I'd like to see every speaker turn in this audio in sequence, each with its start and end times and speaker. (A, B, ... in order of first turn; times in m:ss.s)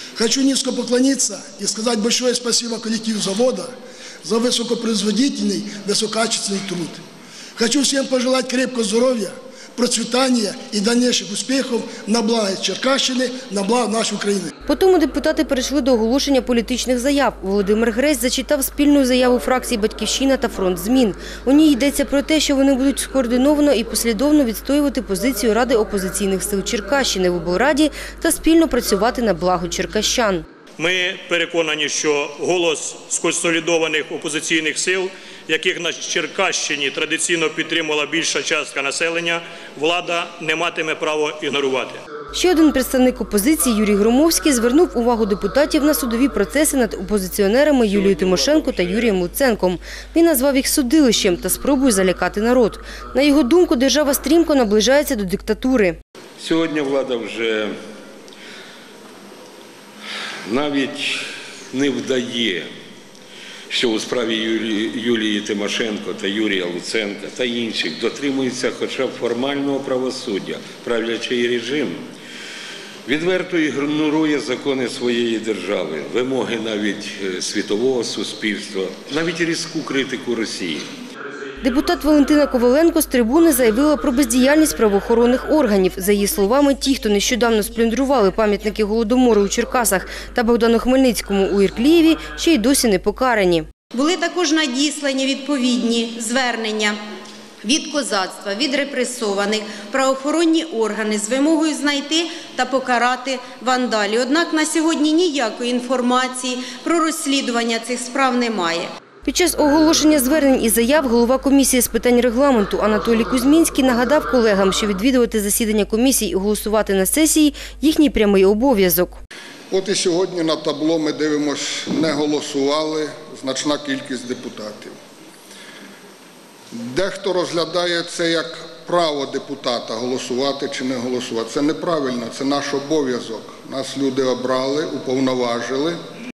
0:00.2-0:03.7 A
0:04.2-0:07.0 A
0:07.6-0:14.5 A
0:14.7-0:30.4 B
0:30.8-0:42.0 C
0:42.3-0:56.0 B
0:47.9-0:49.2 D
0:56.4-0:57.7 D
1:00.5-1:02.7 D
1:03.7-1:12.0 D
1:13.1-1:20.8 D
1:21.6-1:33.7 B
1:33.9-1:37.0 E
1:37.6-1:48.9 E
1:49.2-1:59.2 B
1:59.7-2:05.0 F
2:06.7-2:16.0 F